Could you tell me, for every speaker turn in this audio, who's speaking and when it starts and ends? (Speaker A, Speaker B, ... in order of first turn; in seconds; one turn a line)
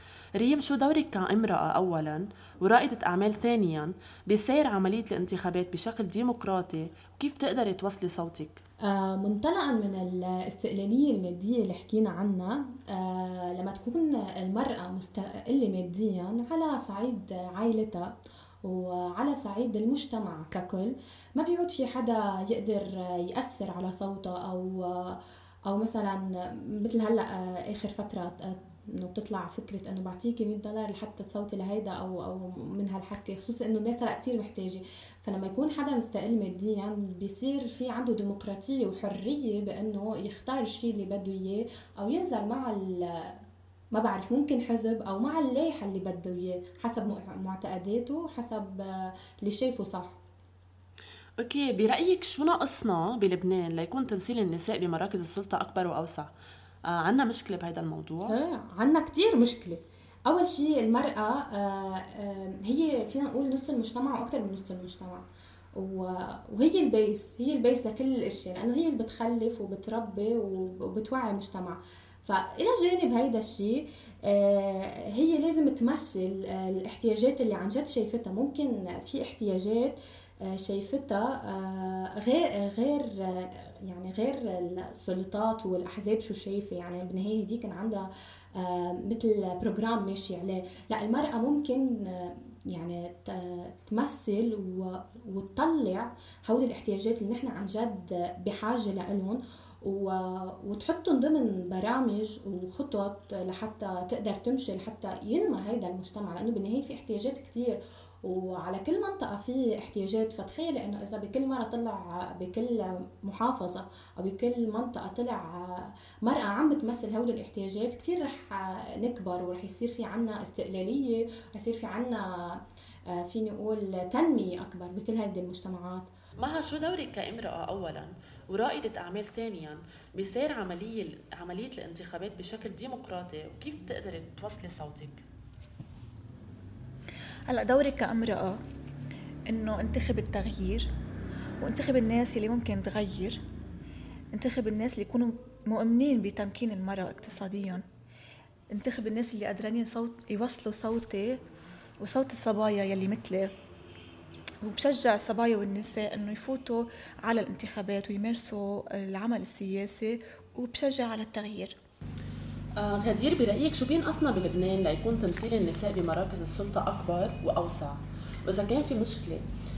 Speaker A: 0.4-8.6
Speaker B: 8.9-18.1
Speaker B: 18.6-43.4
Speaker B: 43.9-50.2
Speaker A: 51.4-56.3
Speaker A: 56.9-58.3
Speaker B: 58.3-65.3
Speaker B: 65.8-122.6
Speaker B: 123.1-126.1
Speaker A: 126.4-135.2
Speaker C: 137.5-138.6
Speaker C: 139.5-140.9
Speaker C: 141.6-143.4
Speaker C: 144.3-147.8
Speaker C: 148.7-151.4
Speaker C: 152.0-153.5
Speaker C: 154.6-161.8
Speaker A: 162.8-169.4